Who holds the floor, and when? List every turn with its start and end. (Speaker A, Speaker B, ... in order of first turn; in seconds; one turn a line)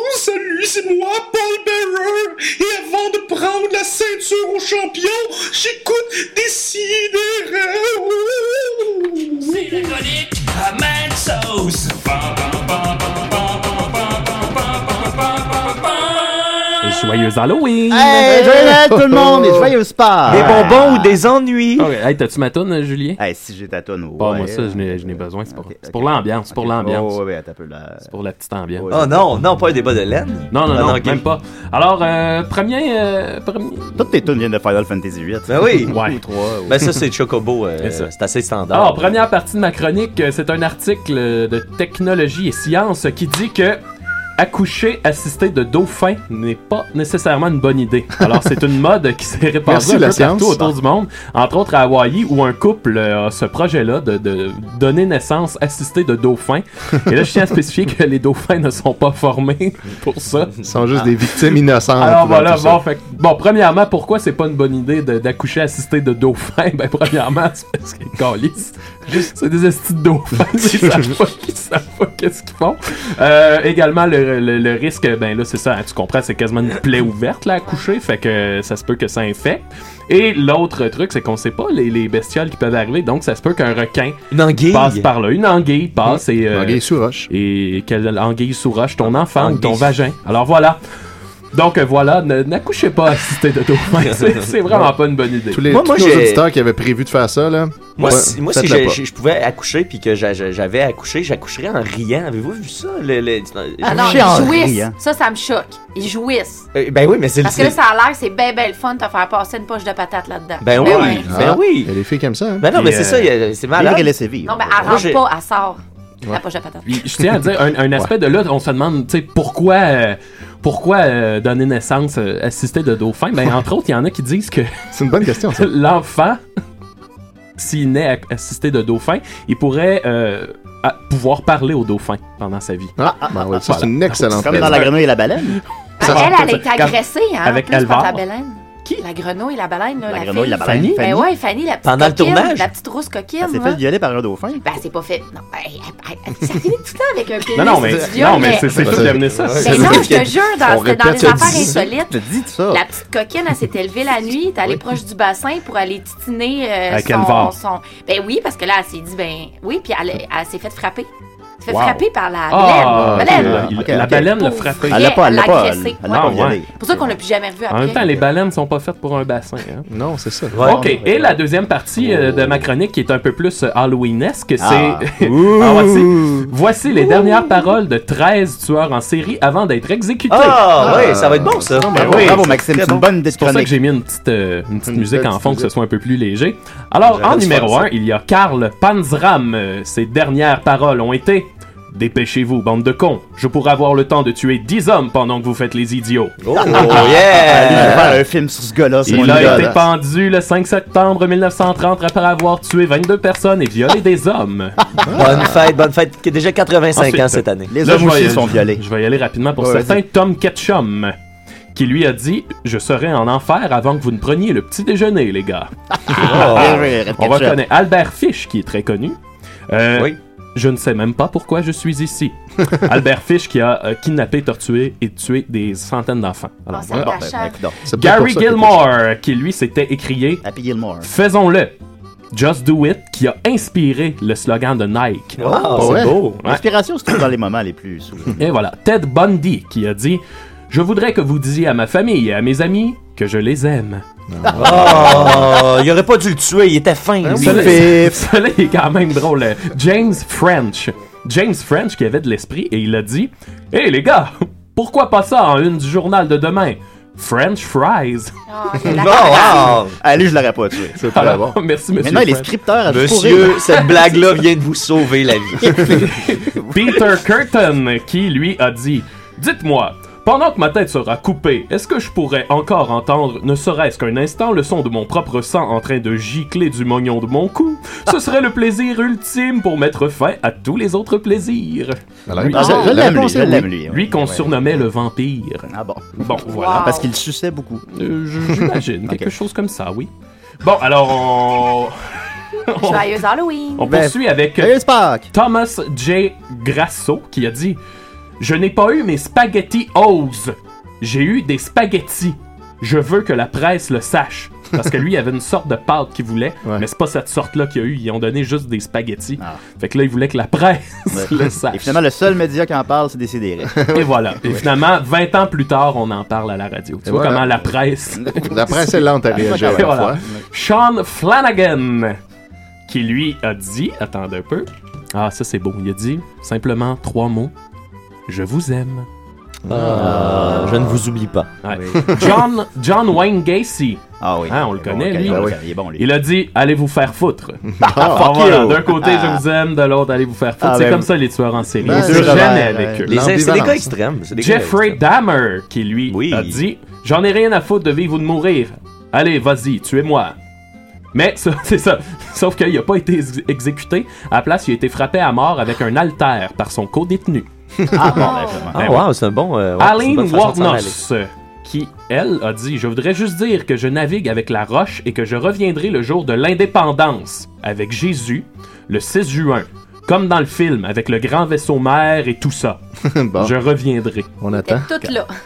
Speaker A: 0.2-8.9
Speaker A: 9.4-9.7
Speaker B: 9.7-11.9
Speaker C: 16.8-18.8
Speaker D: 17.9-21.2
Speaker E: 18.2-19.7
Speaker F: 20.2-21.9
Speaker C: 21.8-23.2
Speaker D: 23.2-28.1
Speaker C: 24.2-27.2
Speaker C: 28.1-28.9
Speaker D: 28.8-29.3
Speaker F: 28.9-31.2
Speaker C: 30.5-34.0
Speaker D: 34.0-36.9
Speaker F: 35.5-35.9
Speaker C: 35.9-36.2
Speaker F: 36.6-39.1
Speaker C: 37.8-38.1
Speaker C: 38.7-43.8
Speaker C: 44.4-60.6
Speaker E: 49.6-50.7
Speaker E: 60.6-62.8
Speaker C: 62.0-84.2
Speaker F: 84.3-85.1
Speaker C: 84.7-90.8
Speaker E: 86.0-87.3
Speaker F: 89.0-89.9
Speaker C: 91.5-95.6
Speaker F: 94.1-94.3
Speaker E: 95.5-99.0
Speaker F: 95.7-96.4
Speaker F: 98.0-104.5
Speaker D: 103.8-104.9
Speaker G: 103.8-106.7
Speaker F: 106.7-107.8
Speaker G: 107.4-111.3
Speaker F: 110.6-111.9
Speaker D: 110.9-111.2
Speaker E: 111.2-112.7
Speaker F: 112.6-114.1
Speaker C: 112.7-113.3
Speaker D: 113.8-115.0
Speaker G: 114.4-117.0
Speaker F: 114.8-115.2
Speaker C: 116.8-124.7
Speaker E: 117.2-118.1
Speaker E: 124.9-125.7
Speaker C: 125.2-126.4
Speaker C: 127.6-132.9
Speaker E: 133.0-134.9
Speaker D: 133.1-133.8
Speaker C: 133.6-138.2
Speaker D: 134.4-135.6
Speaker G: 136.0-143.8
Speaker D: 140.1-141.3
Speaker C: 140.6-141.0
Speaker F: 141.8-142.7
Speaker D: 143.4-144.6
Speaker G: 144.6-148.8
Speaker C: 147.5-150.1
Speaker E: 148.7-151.8
Speaker F: 149.3-150.3
Speaker G: 149.6-161.1
Speaker F: 151.2-151.8
Speaker D: 151.8-152.8
Speaker C: 156.9-157.6
Speaker G: 161.6-168.0
Speaker C: 161.7-165.3
Speaker E: 162.9-163.8
Speaker D: 163.3-164.3
Speaker D: 164.9-167.1
Speaker C: 166.1-166.6
Speaker C: 167.7-169.8
Speaker E: 169.9-170.6
Speaker F: 170.5-171.3
Speaker C: 170.6-180.9
Speaker D: 170.7-170.9
Speaker E: 172.1-172.5
Speaker D: 174.6-176.4
Speaker F: 180.3-183.0
Speaker E: 180.8-182.4
Speaker D: 181.9-183.7
Speaker C: 181.9-196.3
Speaker E: 184.8-185.7
Speaker F: 187.0-187.9
Speaker F: 196.4-198.1
Speaker D: 196.5-199.8
Speaker E: 197.7-198.2
Speaker E: 199.1-199.8
Speaker C: 199.1-204.8
Speaker E: 205.1-205.6
Speaker F: 205.1-207.7
Speaker C: 206.9-211.1
Speaker D: 207.7-208.8
Speaker D: 209.6-210.0
Speaker C: 211.7-215.7
Speaker D: 215.9-217.6
Speaker F: 216.2-216.9
Speaker C: 216.2-219.2
Speaker C: 219.7-226.9
Speaker G: 226.7-227.6
Speaker D: 226.9-227.8
Speaker E: 227.8-228.8
Speaker C: 227.9-230.4
Speaker D: 230.4-231.1
Speaker C: 231.0-231.8
Speaker C: 232.3-236.6
Speaker F: 235.4-236.4
Speaker D: 235.5-238.5
Speaker E: 235.8-236.2
Speaker C: 238.4-244.0
Speaker E: 244.3-245.5
Speaker D: 244.5-245.6
Speaker F: 244.6-247.9
Speaker E: 247.2-248.1
Speaker C: 247.3-258.3
Speaker D: 247.4-248.2
Speaker G: 258.5-259.8
Speaker F: 259.0-260.0
Speaker D: 260.0-261.0
Speaker E: 261.0-261.6
Speaker C: 261.0-262.5
Speaker D: 262.0-263.8
Speaker F: 262.9-266.0
Speaker C: 265.6-283.2
Speaker D: 266.6-267.0
Speaker E: 282.3-283.7
Speaker D: 282.5-284.9
Speaker C: 283.9-286.9
Speaker D: 285.7-287.8
Speaker G: 286.4-287.1
Speaker C: 287.9-290.1
Speaker D: 288.5-289.3
Speaker C: 290.6-292.0
Speaker C: 292.7-293.2
Speaker G: 292.8-293.9
Speaker C: 293.8-294.8
Speaker D: 293.9-295.3
Speaker C: 295.3-297.8
Speaker C: 298.4-312.0
Speaker D: 311.1-314.6
Speaker E: 313.7-314.1
Speaker C: 313.9-318.8
Speaker E: 317.0-317.7
Speaker D: 318.1-320.4
Speaker E: 318.4-320.2
Speaker C: 319.4-322.2
Speaker C: 322.9-327.5
Speaker C: 328.3-329.1
Speaker E: 329.6-331.0
Speaker F: 329.7-331.5
Speaker D: 330.0-330.6
Speaker C: 331.6-343.1
Speaker D: 331.7-332.4
Speaker D: 334.2-336.1
Speaker E: 335.2-335.6
Speaker E: 337.7-338.3
Speaker D: 337.8-339.4
Speaker D: 340.6-341.1
Speaker D: 341.8-343.0
Speaker E: 341.8-343.9
Speaker F: 343.1-345.0
Speaker C: 344.3-350.3
Speaker F: 346.1-346.6
Speaker C: 351.1-357.5
Speaker D: 357.9-359.0
Speaker G: 358.0-358.7
Speaker F: 358.7-361.0
Speaker C: 358.8-359.1
Speaker C: 359.8-372.8
Speaker E: 373.0-373.5
Speaker C: 373.4-374.3
Speaker E: 374.4-374.9
Speaker G: 374.5-375.3